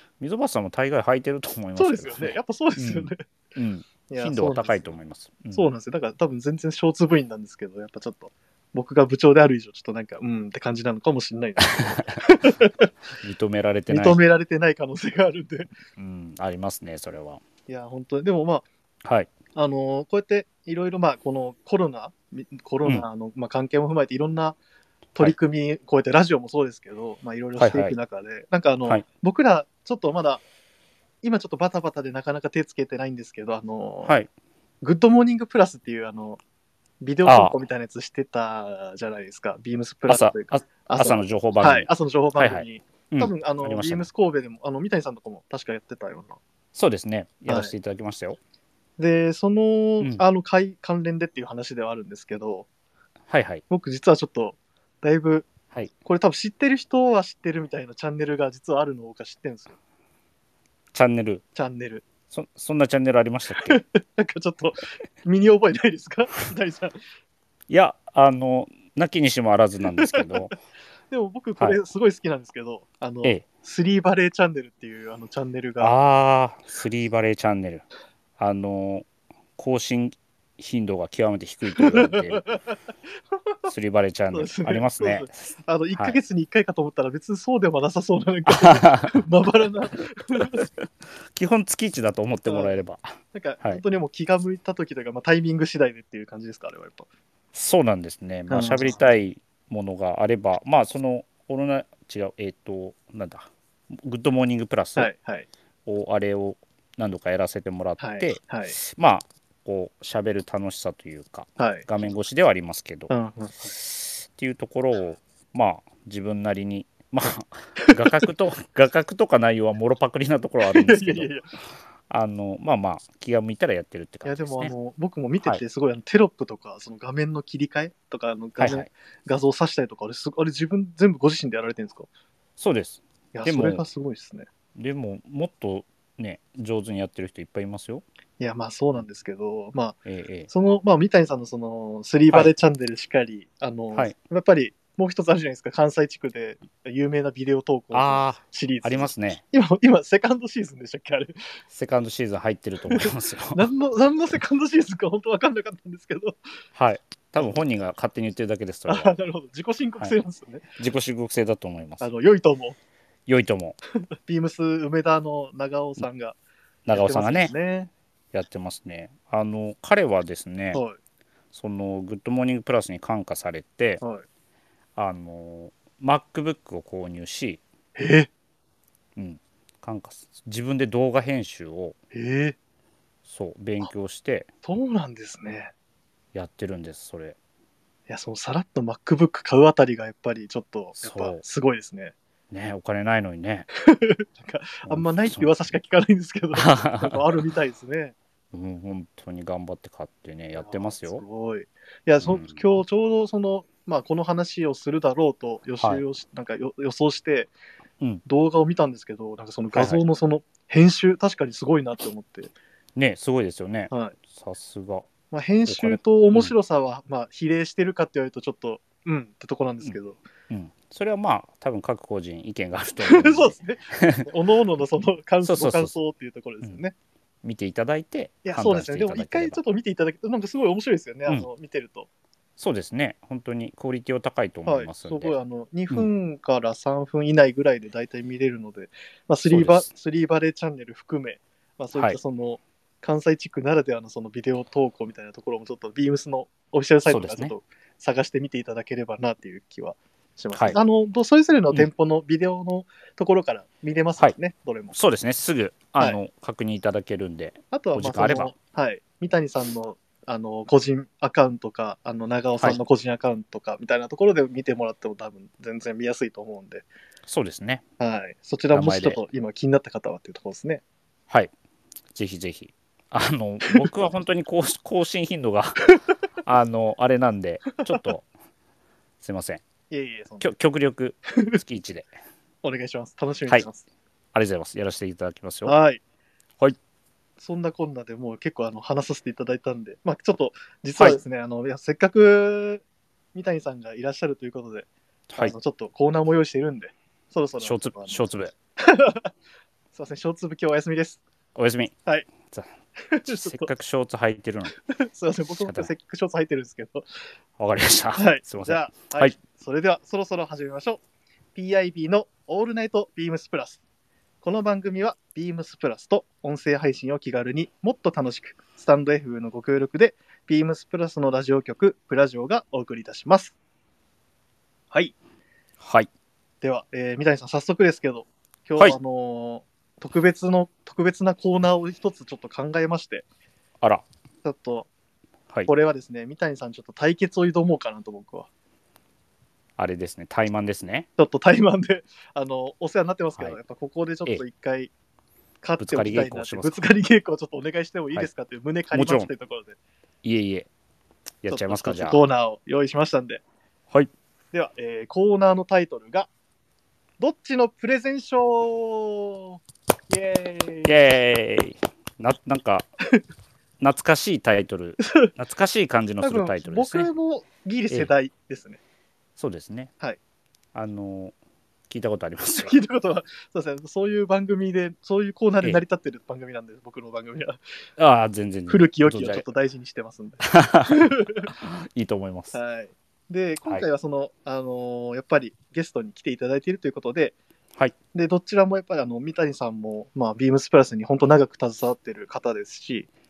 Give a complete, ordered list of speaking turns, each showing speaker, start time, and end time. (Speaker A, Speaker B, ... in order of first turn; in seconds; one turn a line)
Speaker A: 0.2-5.6
Speaker B: 1.8-3.2
Speaker B: 4.1-4.9
Speaker B: 5.5-12.9
Speaker A: 11.7-11.9
Speaker A: 13.2-14.2
Speaker B: 13.9-15.7
Speaker A: 16.0-17.4
Speaker B: 17.7-18.6
Speaker A: 19.0-19.3
Speaker B: 19.5-24.6
Speaker B: 25.1-30.4
Speaker A: 27.6-28.0
Speaker B: 31.2-34.1
Speaker B: 34.8-36.4
Speaker B: 37.0-46.4
Speaker A: 37.2-37.5
Speaker A: 40.1-44.1
Speaker A: 46.7-48.4
Speaker B: 47.5-47.7
Speaker B: 49.0-52.7
Speaker A: 53.3-53.6
Speaker B: 53.7-55.5
Speaker B: 56.0-59.7
Speaker A: 60.9-61.4
Speaker B: 61.5-62.0
Speaker A: 62.3-63.8
Speaker B: 63.5-67.0
Speaker A: 67.7-70.5
Speaker B: 71.1-75.9
Speaker A: 75.8-77.8
Speaker A: 78.4-82.4
Speaker B: 81.8-82.7
Speaker A: 83.7-85.3
Speaker B: 84.3-90.7
Speaker A: 88.5-89.2
Speaker A: 91.3-93.8
Speaker B: 92.5-92.8
Speaker B: 93.3-97.1
Speaker A: 97.5-105.1
Speaker B: 98.5-99.0
Speaker B: 105.0-105.5
Speaker A: 105.8-113.1
Speaker B: 108.0-108.8
Speaker B: 111.6-111.9
Speaker B: 113.1-113.7
Speaker A: 113.7-121.3
Speaker B: 117.8-118.2
Speaker B: 120.6-121.5
Speaker A: 122.1-124.7
Speaker B: 124.2-132.1
Speaker A: 128.6-128.9
Speaker A: 132.6-133.8
Speaker B: 133.3-134.5
Speaker A: 134.7-138.0
Speaker B: 138.4-140.0
Speaker A: 140.1-140.5
Speaker B: 140.5-151.4
Speaker A: 147.9-149.4
Speaker A: 151.7-153.6
Speaker B: 152.9-156.5
Speaker A: 156.7-159.1
Speaker B: 158.9-160.7
Speaker A: 160.8-162.1
Speaker B: 162.0-162.8
Speaker A: 163.3-163.8
Speaker B: 164.2-166.4
Speaker A: 166.8-167.5
Speaker B: 166.9-167.9
Speaker A: 168.3-170.8
Speaker A: 171.5-174.0
Speaker A: 174.9-177.6
Speaker B: 177.9-178.3
Speaker A: 179.2-181.9
Speaker B: 182.1-182.6
Speaker A: 183.3-184.5
Speaker B: 184.6-185.7
Speaker A: 186.3-187.4
Speaker B: 188.1-192.1
Speaker A: 191.0-191.4
Speaker A: 192.5-193.7
Speaker B: 193.8-198.2
Speaker A: 194.9-195.5
Speaker A: 196.5-197.2
Speaker A: 198.5-201.2
Speaker B: 200.6-207.5
Speaker A: 202.2-202.6
Speaker B: 208.2-212.5
Speaker A: 209.7-210.0
Speaker A: 212.9-215.1
Speaker B: 213.9-214.2
Speaker B: 215.3-220.2
Speaker A: 215.7-216.5
Speaker A: 220.5-224.3
Speaker B: 223.0-226.9
Speaker A: 225.4-225.9
Speaker A: 227.4-229.6
Speaker B: 228.4-232.1
Speaker A: 232.6-235.3
Speaker B: 234.7-254.9
Speaker A: 239.5-239.9
Speaker A: 241.9-242.2
Speaker A: 247.1-247.5
Speaker A: 254.9-258.5
Speaker B: 257.7-266.9
Speaker A: 267.3-267.8
Speaker B: 268.0-270.8
Speaker A: 268.7-269.2
Speaker A: 272.1-275.9
Speaker A: 276.4-278.3
Speaker A: 279.2-279.6
Speaker B: 279.9-280.5
Speaker A: 280.4-282.1
Speaker B: 282.6-283.8
Speaker A: 284.3-285.7
Speaker B: 285.6-286.0
Speaker B: 287.4-292.8
Speaker B: 293.3-298.2
Speaker A: 295.3-295.5
Speaker A: 297.6-298.5
Speaker B: 298.8-299.3
Speaker B: 299.9-301.2
Speaker A: 301.5-302.7
Speaker B: 303.0-303.7
Speaker A: 303.2-304.7
Speaker B: 304.9-307.1
Speaker A: 305.6-305.9
Speaker A: 307.6-309.3
Speaker B: 308.1-311.0
Speaker B: 311.5-313.8
Speaker B: 314.4-323.5
Speaker A: 325.8-326.1
Speaker B: 326.6-333.2
Speaker B: 334.4-334.9
Speaker B: 335.7-338.5
Speaker A: 339.8-341.1
Speaker B: 341.2-344.9
Speaker B: 345.6-349.8
Speaker A: 345.8-346.8
Speaker A: 348.9-349.3
Speaker A: 350.2-350.7
Speaker A: 351.4-352.2
Speaker B: 351.5-353.4
Speaker B: 354.5-356.3
Speaker B: 357.2-359.6
Speaker B: 360.1-360.9
Speaker A: 360.9-362.9
Speaker A: 363.8-367.1
Speaker B: 365.0-365.3
Speaker B: 366.2-368.8
Speaker A: 369.4-369.9
Speaker A: 370.7-371.3
Speaker A: 371.9-372.7
Speaker B: 372.6-377.6
Speaker A: 378.0-379.4
Speaker B: 378.7-381.5
Speaker A: 380.5-382.6
Speaker B: 382.5-387.4
Speaker B: 388.1-393.1